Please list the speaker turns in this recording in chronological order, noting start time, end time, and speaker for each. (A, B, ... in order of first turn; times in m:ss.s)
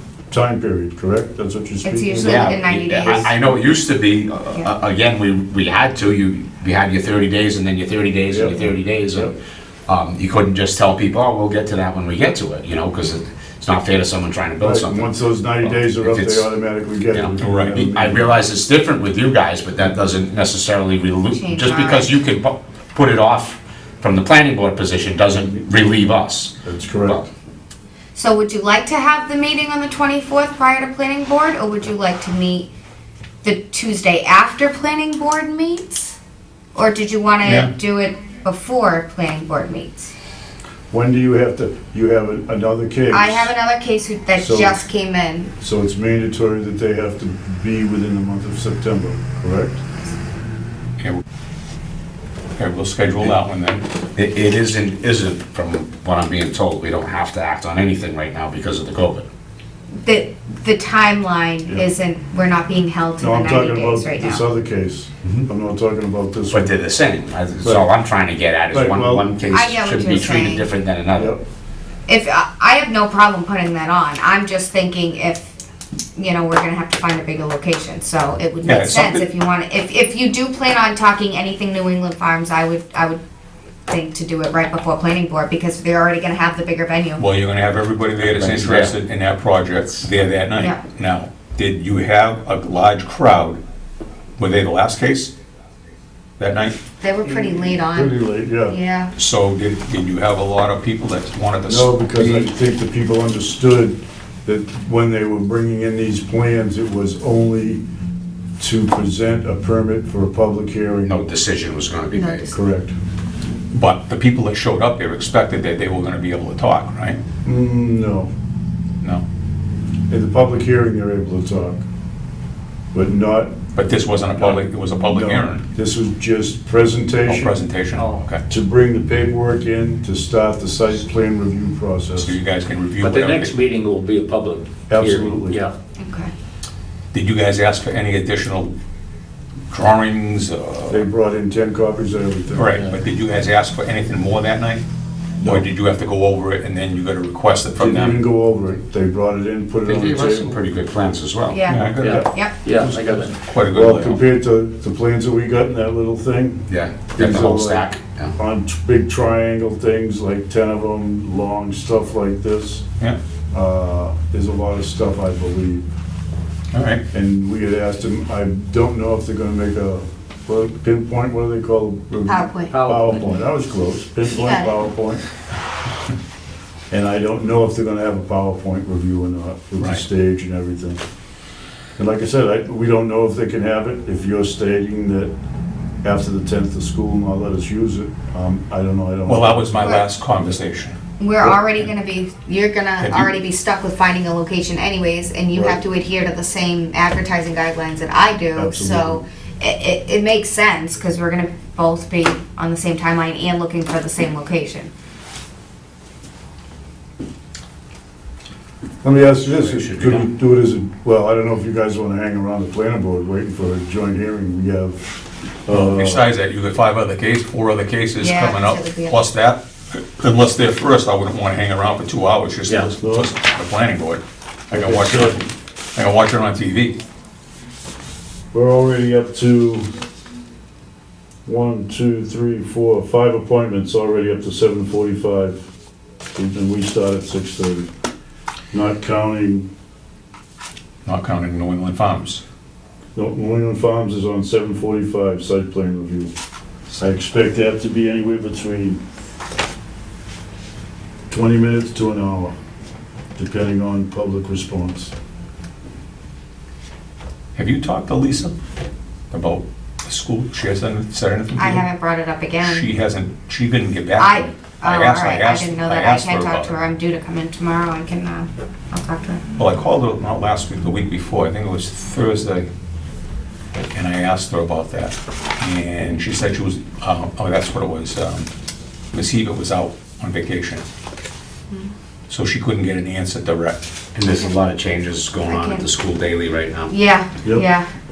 0:00.3-0:02.3 A
0:01.8-0:03.4 B
0:02.1-0:09.3 C
0:08.3-0:09.3 A
0:09.8-0:16.5 C
0:14.6-0:18.3 A
0:17.1-0:27.3 C
0:17.4-0:17.8 D
0:21.3-0:22.2 B
0:26.6-0:27.2 A
0:28.1-0:32.7 B
0:33.4-0:36.2 B
0:36.7-0:40.1 B
0:37.4-0:37.7 D
0:40.9-0:43.5 A
0:43.1-0:45.5 B
0:44.3-0:44.8 A
0:45.6-0:49.8 A
0:52.6-0:53.8 D
0:54.2-0:59.3 C
1:00.0-1:04.4 B
1:03.2-1:06.8 A
1:06.5-1:11.3 C
1:07.6-1:07.9 A
1:08.7-1:09.3 A
1:09.4-1:10.7 B
1:11.1-1:11.4 A
1:12.1-1:15.6 B
1:16.1-1:23.2 B
1:18.6-1:19.2 D
1:23.9-1:27.2 B
1:27.2-1:33.6 D
1:28.2-1:28.9 C
1:34.4-1:35.3 D
1:36.4-1:36.8 D
1:37.0-1:39.1 B
1:37.2-1:38.8 A
1:39.2-1:42.4 D
1:41.6-1:47.8 A
1:48.6-1:51.1 A
1:51.0-1:52.5 C
1:52.1-1:52.6 B
1:52.5-1:52.9 A
1:53.7-1:57.2 D
1:57.4-1:58.3 A
2:00.1-2:01.8 A
2:02.9-2:03.6 A
2:03.7-2:05.6 D
2:04.4-2:07.5 A
2:07.2-2:08.4 D
2:08.5-2:12.4 A
2:12.2-2:13.5 D
2:13.0-2:15.7 E
2:14.9-2:15.6 A
2:16.0-2:16.3 B
2:17.1-2:18.7 D
2:19.7-2:21.0 D
2:20.9-2:22.7 A
2:22.5-2:24.8 D
2:22.7-2:23.0 E
2:25.4-2:28.2 D
2:27.8-2:30.6 A
2:29.8-2:31.6 C
2:31.5-2:32.6 B
2:31.7-2:32.2 D
2:32.0-2:33.4 E
2:32.0-2:42.8 A
2:33.4-2:34.2 D
2:36.7-2:38.3 C
2:43.5-2:45.8 A
2:46.7-2:47.0 D
2:47.1-2:55.2 A
2:52.3-2:52.8 B
2:52.7-2:53.4 E
2:54.3-2:54.7 B
2:56.9-3:01.0 A
3:02.0-3:05.3 A
3:06.0-3:10.0 A
3:09.2-3:11.9 D
3:11.2-3:24.9 B
3:13.0-3:13.3 D
3:15.5-3:15.8 A
3:18.5-3:19.2 A
3:29.0-3:36.2 A
3:29.2-3:30.3 C
3:35.7-3:47.0 D
3:38.2-3:39.2 B
3:42.6-3:42.9 E
3:43.0-3:43.3 A
3:44.7-3:45.4 A
3:48.5-3:49.9 A
3:51.4-3:55.6 A
3:56.3-3:57.9 A
3:58.7-3:59.7 A
4:01.0-4:02.4 D
4:03.1-4:06.3 A
4:07.0-4:09.0 A
4:11.3-4:12.6 A
4:13.4-4:15.1 A
4:17.6-4:18.6 D
4:19.3-4:21.8 D
4:21.5-4:22.9 B
4:22.6-4:26.7 D
4:24.2-4:29.4 B
4:29.6-4:32.7 D
4:33.9-4:38.5 D
4:39.1-4:40.8 D
4:42.3-4:43.8 D
4:44.1-4:46.9 C
4:45.4-4:45.8 B
4:46.9-4:47.9 B